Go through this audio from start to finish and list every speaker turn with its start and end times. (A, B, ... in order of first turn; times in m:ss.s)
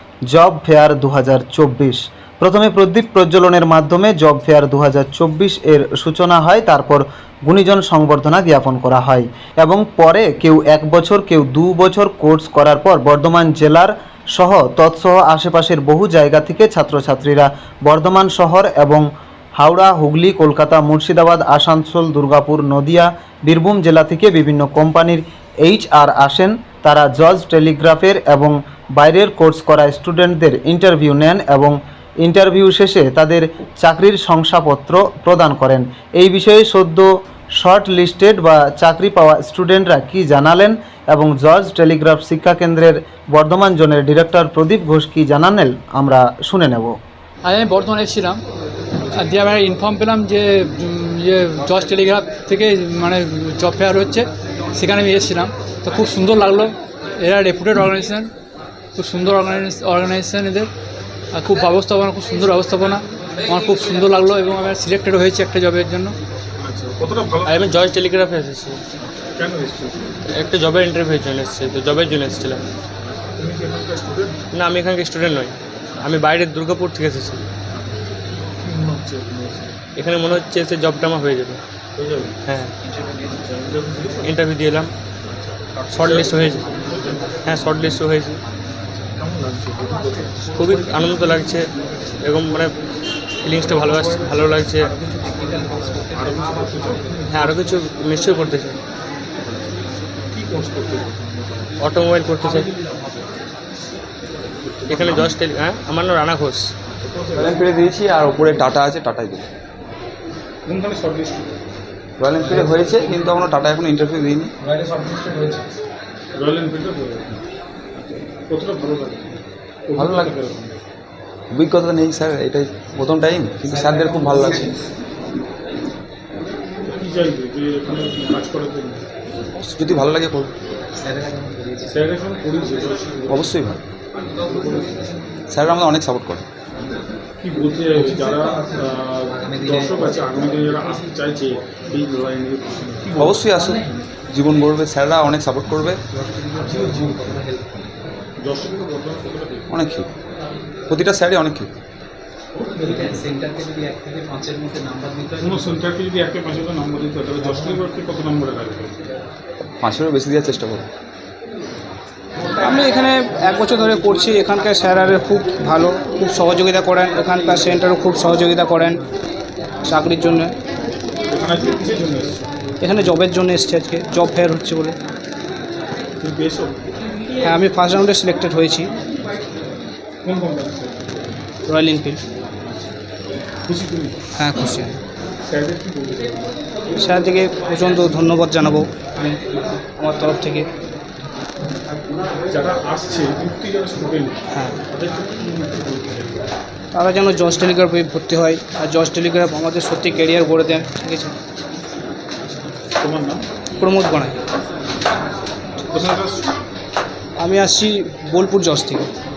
0:00.3-0:19.0 A
0:19.6-0:37.1 A
0:37.6-0:47.0 A
0:47.4-0:48.4 B
0:49.1-0:58.3 B
0:59.0-1:00.7 B
1:01.3-1:06.1 B
1:06.6-1:07.6 C
1:07.5-1:08.8 D
1:09.4-1:10.0 C
1:10.4-1:12.6 D
1:13.4-1:14.4 C
1:14.5-1:17.4 D
1:18.6-1:19.7 C
1:20.0-1:21.6 D
1:22.0-1:22.3 C
1:23.5-1:24.3 C
1:24.2-1:24.9 D
1:25.4-1:27.4 C
1:25.9-1:26.6 D
1:27.4-1:28.4 D
1:29.1-1:30.3 C
1:30.6-1:31.6 D
1:32.2-1:32.7 D
1:33.4-1:34.9 D
1:35.5-1:37.4 C
1:37.3-1:38.8 D
1:40.3-1:41.3 C
1:41.8-1:42.7 D
1:44.6-1:45.4 C
1:44.9-1:46.7 D
1:47.0-1:47.6 C
1:47.3-1:49.4 E
1:50.7-1:51.5 C
1:52.2-1:54.5 E
1:56.4-1:57.4 C
1:58.0-1:59.3 C
1:59.9-2:00.7 C
2:00.0-2:00.3 E
2:01.5-2:04.6 E
2:06.8-2:09.0 C
2:09.6-2:10.5 E
2:11.9-2:13.4 C
2:13.3-2:13.8 E
2:14.5-2:14.9 C
2:15.5-2:16.4 E
2:17.4-2:23.3 C
2:23.2-2:23.8 E
2:24.3-2:26.0 E
2:28.4-2:29.6 C
2:29.7-2:30.1 E
2:30.9-2:31.7 E
2:32.8-2:35.0 F
2:35.4-2:38.9 C
2:39.8-2:40.8 E
2:42.6-2:49.0 G
2:49.8-2:50.5 G
2:51.3-2:52.4 C
2:52.8-2:55.0 G
2:56.2-2:56.7 C
2:57.4-2:58.9 G
3:00.2-3:01.1 C
3:01.7-3:02.2 G
3:03.7-3:04.2 C
3:04.4-3:05.0 G
3:05.5-3:06.5 C
3:07.0-3:08.9 G
3:10.0-3:10.7 G
3:12.5-3:14.3 C
3:14.9-3:16.4 C
3:16.9-3:21.3 G
3:23.0-3:23.4 C
3:23.8-3:24.4 G
3:25.9-3:26.5 C
3:27.4-3:29.1 G